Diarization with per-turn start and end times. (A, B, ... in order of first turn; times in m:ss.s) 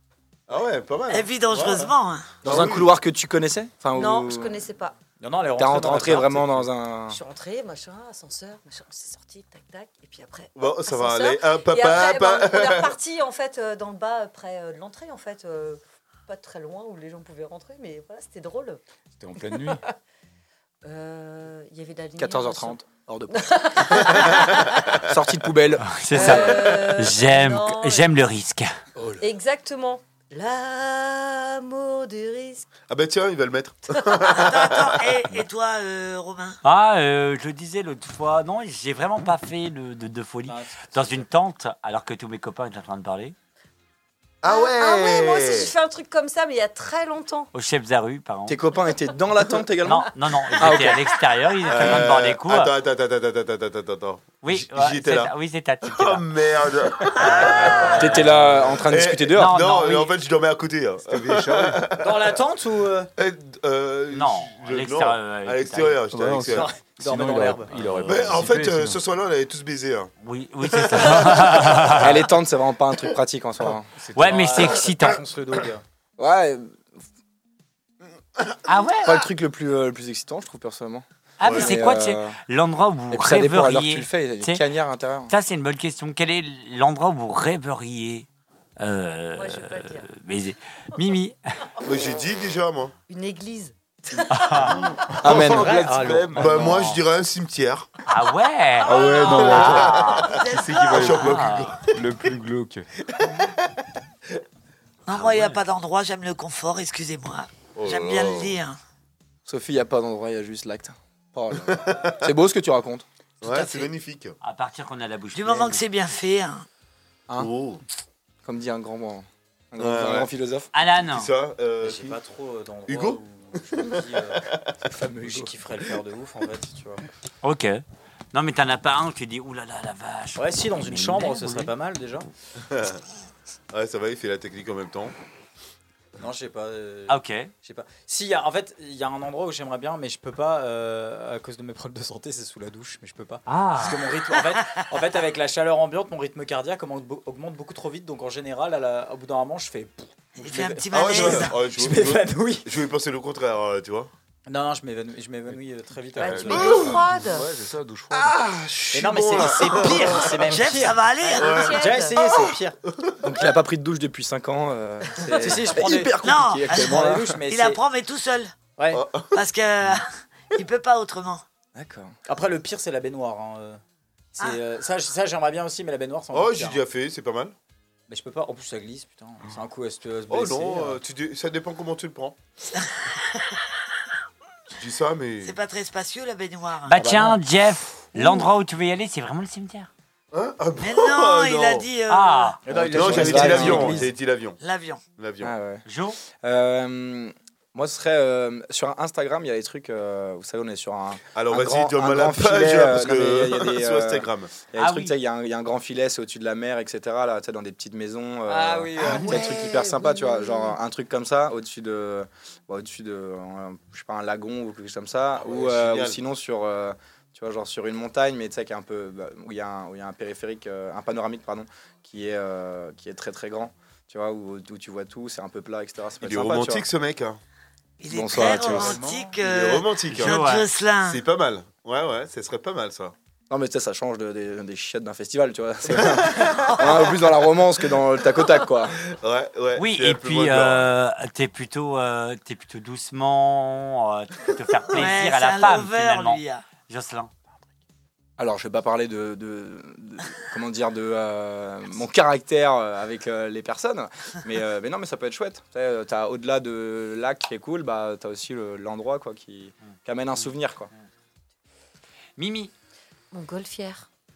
0:00.5-0:02.9 A
0:01.1-0:02.4 B
0:02.4-0:04.6 C
0:03.9-0:04.9 D
0:05.2-0:06.7 E
0:05.6-0:07.2 C
0:07.1-0:18.8 D
0:10.6-0:13.0 A
0:19.2-0:19.8 F
0:19.4-0:19.8 D
0:20.8-0:25.0 D
0:22.2-0:24.3 C
0:24.1-0:24.7 A
0:25.0-0:26.6 C
0:25.9-0:28.7 G
0:26.1-0:28.1 D
0:29.2-0:32.7 D
0:32.9-0:35.2 A
0:34.0-0:34.3 D
0:34.3-0:36.6 B
0:36.6-0:43.3 G
0:40.5-0:41.2 E
0:44.4-0:45.7 A
0:44.4-0:47.5 D
0:47.5-0:48.6 G
0:48.5-0:51.1 C
0:49.8-0:52.7 G
0:51.6-0:55.3 A
0:54.4-0:56.2 G
0:55.8-1:02.3 A
0:57.2-0:57.5 B
0:57.7-0:58.0 G
0:57.9-0:59.6 C
0:58.2-0:58.7 F
0:59.4-1:00.1 G
1:01.1-1:01.8 F
1:02.0-1:03.1 E
1:03.2-1:06.7 A
1:04.1-1:06.0 G
1:06.1-1:09.0 F
1:06.5-1:07.9 E
1:08.0-1:10.1 A
1:10.2-1:12.2 G
1:10.6-1:12.1 A
1:12.0-1:13.9 C
1:14.0-1:14.7 F
1:14.2-1:15.2 G
1:14.2-1:15.8 E
1:16.2-1:16.9 C
1:18.6-1:19.2 G
1:19.0-1:22.4 C
1:21.4-1:24.6 G
1:21.4-1:21.8 A
1:23.1-1:25.3 C
1:25.3-1:28.3 G
1:28.8-1:31.4 G
1:29.4-1:30.1 D
1:31.8-1:32.9 A
1:33.1-1:35.1 D
1:34.3-1:34.8 G
1:34.5-1:37.9 A
1:35.2-1:35.7 C
1:35.2-1:37.0 E
1:36.4-1:36.7 F
1:38.1-1:40.3 G
1:38.8-1:42.9 F
1:39.1-1:41.3 B
1:39.1-1:42.0 A
1:41.2-1:41.7 G
1:43.1-1:43.5 A
1:45.0-1:48.8 B
1:45.1-1:45.6 G
1:47.7-1:48.6 A
1:49.4-1:53.0 C
1:51.6-1:52.3 A
1:53.4-1:54.3 A
1:53.4-1:53.9 B
1:54.4-1:55.8 G
1:55.3-1:56.6 B
1:57.4-1:57.8 A
1:58.4-2:00.7 C
1:59.8-2:00.3 A
2:00.7-2:01.3 G
2:01.0-2:02.2 A
2:01.8-2:04.5 E
2:02.9-2:03.2 A
2:03.8-2:04.7 A
2:04.8-2:05.5 C
2:05.2-2:07.0 E
2:07.4-2:07.8 G
2:08.3-2:11.7 G
2:10.4-2:12.3 E
2:12.6-2:13.0 A
2:13.7-2:15.1 A
2:16.2-2:32.7 E
2:17.1-2:17.5 G
2:23.5-2:24.1 G
2:30.4-2:31.6 B
2:30.9-2:34.1 A
2:34.5-2:36.9 E
2:36.1-2:38.4 F
2:36.2-2:37.5 D
2:36.5-2:37.1 A
2:38.1-2:40.5 A
2:38.9-2:42.8 E
2:40.4-2:41.7 B
2:41.2-2:42.3 D
2:41.3-2:43.3 A
2:43.2-2:47.4 C
2:45.3-2:46.2 E
2:46.2-2:48.5 B
2:46.7-2:47.8 E
2:48.8-2:49.0 E
2:48.9-2:49.4 A
2:49.3-2:51.4 B
2:51.7-2:52.2 C
2:52.2-2:53.8 E
2:54.3-2:56.8 E
2:56.3-2:57.5 A
2:58.1-3:01.0 E
3:00.3-3:02.4 A
3:02.6-3:03.7 B
3:04.8-3:05.6 A
3:05.4-3:07.0 B
3:06.9-3:09.9 G
3:07.0-3:07.4 C
3:10.3-3:11.9 A
3:10.8-3:12.6 B
3:12.1-3:12.6 G
3:12.6-3:14.1 E
3:12.6-3:14.1 C
3:12.9-3:14.6 A
3:14.6-3:15.0 B
3:15.2-3:15.5 A
3:15.4-3:46.8 C
3:15.8-3:16.2 G
3:21.3-3:24.5 A
3:24.8-3:25.2 G
3:28.5-3:29.9 E
3:29.0-3:29.4 A
3:29.0-3:30.7 D
3:35.4-3:36.2 A
3:46.2-3:47.4 A
3:48.0-3:51.2 B
3:48.1-3:49.0 C
3:48.6-3:49.2 E
3:48.7-3:50.4 A
3:50.2-3:50.6 G
3:51.0-3:53.1 A
3:53.5-3:59.0 C
3:56.0-3:57.1 A
3:56.7-3:57.1 B
3:59.1-4:00.9 A
3:59.8-4:07.3 G
4:04.9-4:06.7 B
4:08.4-4:20.9 C
4:22.4-4:22.7 G
4:23.3-4:24.1 D